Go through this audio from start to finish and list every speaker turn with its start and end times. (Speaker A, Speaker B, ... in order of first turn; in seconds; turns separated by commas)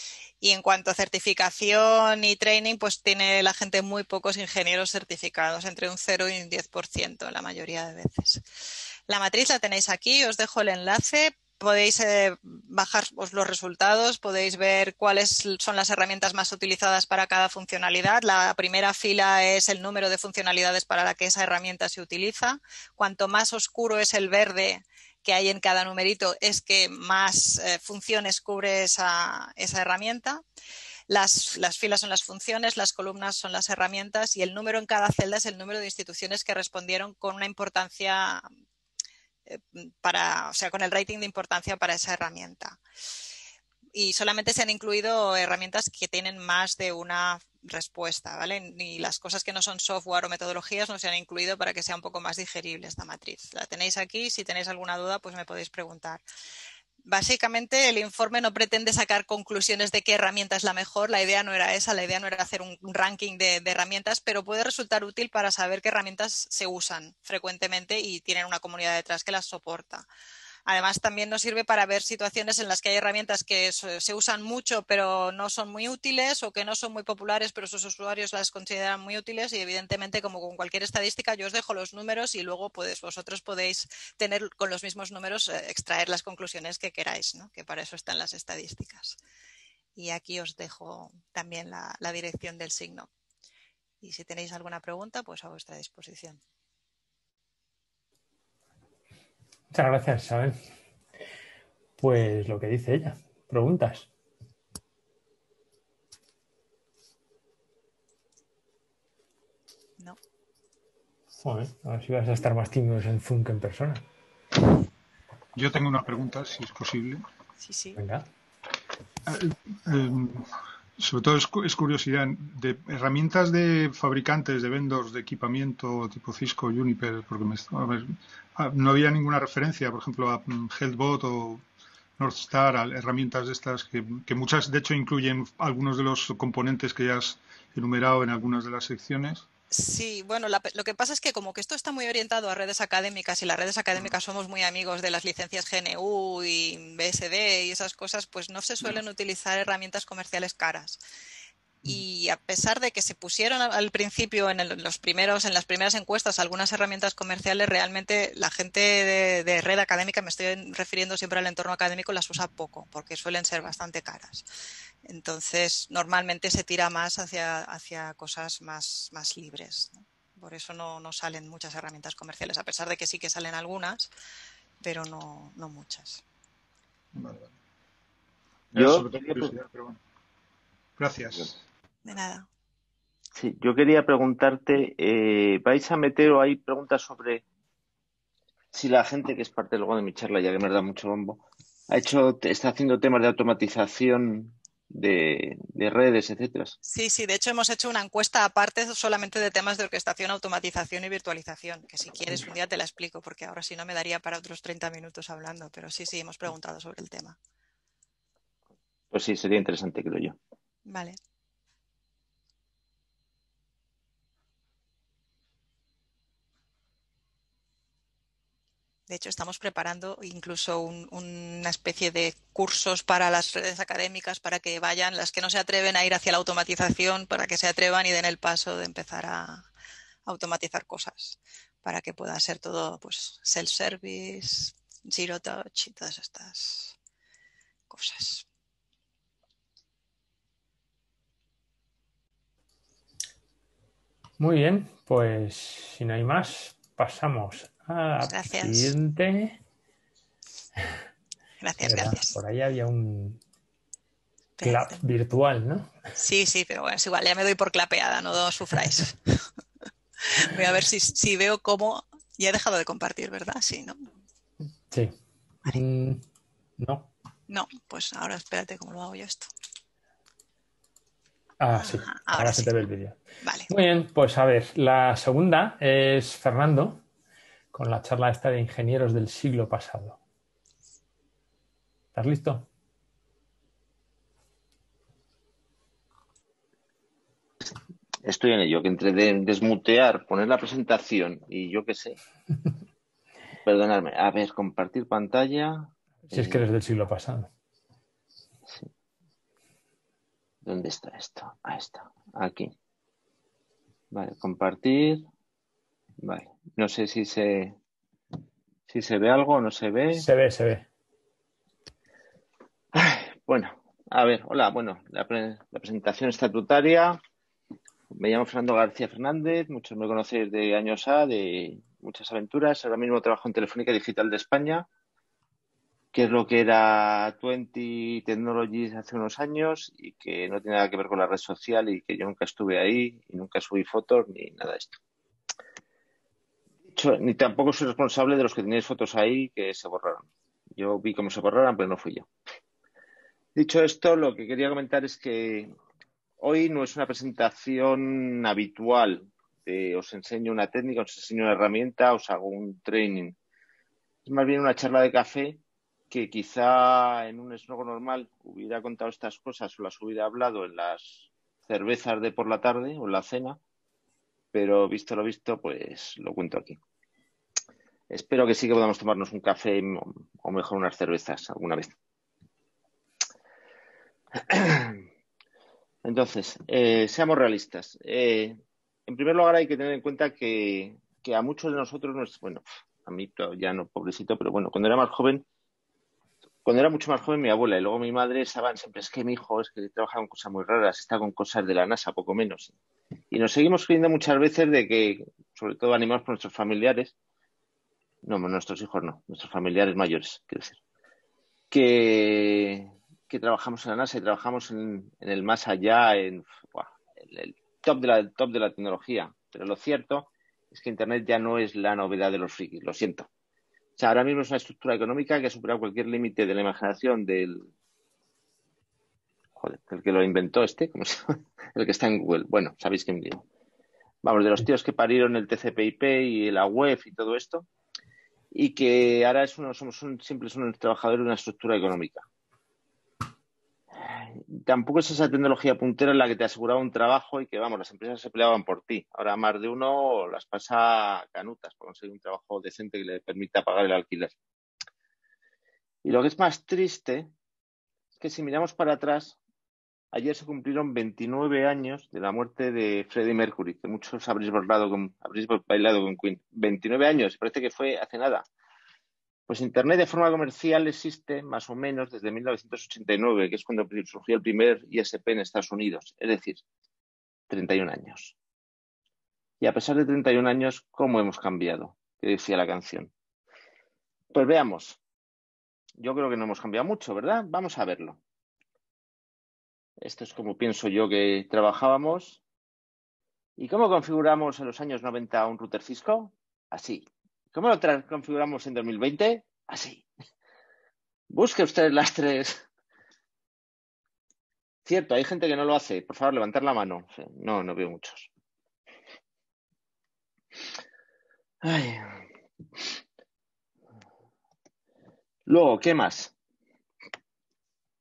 Speaker A: 0.4-8.4, Speaker A: 9.1-30.4, Speaker A: 31.1-38.5, Speaker A: 39.5-42.8, Speaker A: 43.9-56.2, Speaker A: 57.0-70.0, Speaker A: 70.7-89.2, Speaker A: 90.0-93.1, Speaker A: 94.0-96.4, Speaker B: 99.7-100.6, Speaker B: 102.0-104.1, Speaker B: 111.4-114.0, Speaker C: 115.5-117.2, Speaker A: 117.6-118.0, Speaker B: 118.0-118.3, Speaker C: 119.3-131.6, Speaker C: 132.2-139.4, Speaker A: 139.7-151.0, Speaker A: 151.8-164.4, Speaker A: 165.0-174.1, Speaker A: 174.8-176.2, Speaker C: 177.1-177.5, Speaker C: 178.7-180.0, Speaker D: 178.7-179.5, Speaker C: 181.0-181.5, Speaker A: 182.0-182.5, Speaker D: 183.3-187.4, Speaker D: 188.7-196.8, Speaker A: 196.8-207.4, Speaker D: 209.1-210.3, Speaker A: 210.8-211.2, Speaker A: 219.1-229.6, Speaker A: 230.2-237.0, Speaker A: 237.9-238.4, Speaker B: 244.4-249.6, Speaker A: 248.2-248.9, Speaker A: 251.6-252.3, Speaker B: 251.8-253.4, Speaker A: 254.6-254.9, Speaker B: 254.6-255.9, Speaker A: 256.2-259.4, Speaker A: 260.2-264.0, Speaker B: 265.7-266.2, Speaker B: 266.8-267.1, Speaker A: 267.5-269.5, Speaker B: 271.6-273.2, Speaker A: 271.8-272.8, Speaker A: 273.4-273.7, Speaker B: 273.7-277.0, Speaker B: 277.7-280.2, Speaker B: 282.1-282.7, Speaker D: 288.2-292.2, Speaker D: 293.6-296.6, Speaker B: 296.3-297.5, Speaker D: 300.6-302.7, Speaker D: 304.1-305.2, Speaker D: 306.2-307.7, Speaker D: 308.9-310.2, Speaker B: 310.1-310.9, Speaker D: 312.9-317.2, Speaker D: 318.1-324.9, Speaker D: 326.1-335.0, Speaker D: 336.9-340.2, Speaker D: 340.8-342.3, Speaker D: 343.6-345.7, Speaker D: 346.4-353.4, Speaker D: 354.2-363.6, Speaker D: 364.5-366.8, Speaker D: 368.1-371.9, Speaker D: 374.5-375.0, Speaker D: 376.0-385.4, Speaker D: 386.6-392.7, Speaker D: 393.3-397.1, Speaker D: 398.2-400.8, Speaker D: 401.7-413.3, Speaker D: 414.0-417.7, Speaker D: 419.6-423.4, Speaker D: 424.2-427.6, Speaker D: 428.5-432.2, Speaker D: 434.0-444.3, Speaker D: 446.0-447.3, Speaker D: 448.2-449.4, Speaker D: 450.1-458.4, Speaker D: 459.5-466.6, Speaker D: 467.5-468.3, Speaker D: 469.6-473.1, Speaker D: 474.3-475.0, Speaker D: 476.0-478.2, Speaker D: 480.0-482.4, Speaker D: 483.6-490.0, Speaker D: 491.3-492.6, Speaker D: 494.9-498.3, Speaker D: 501.6-502.2, Speaker D: 505.5-506.3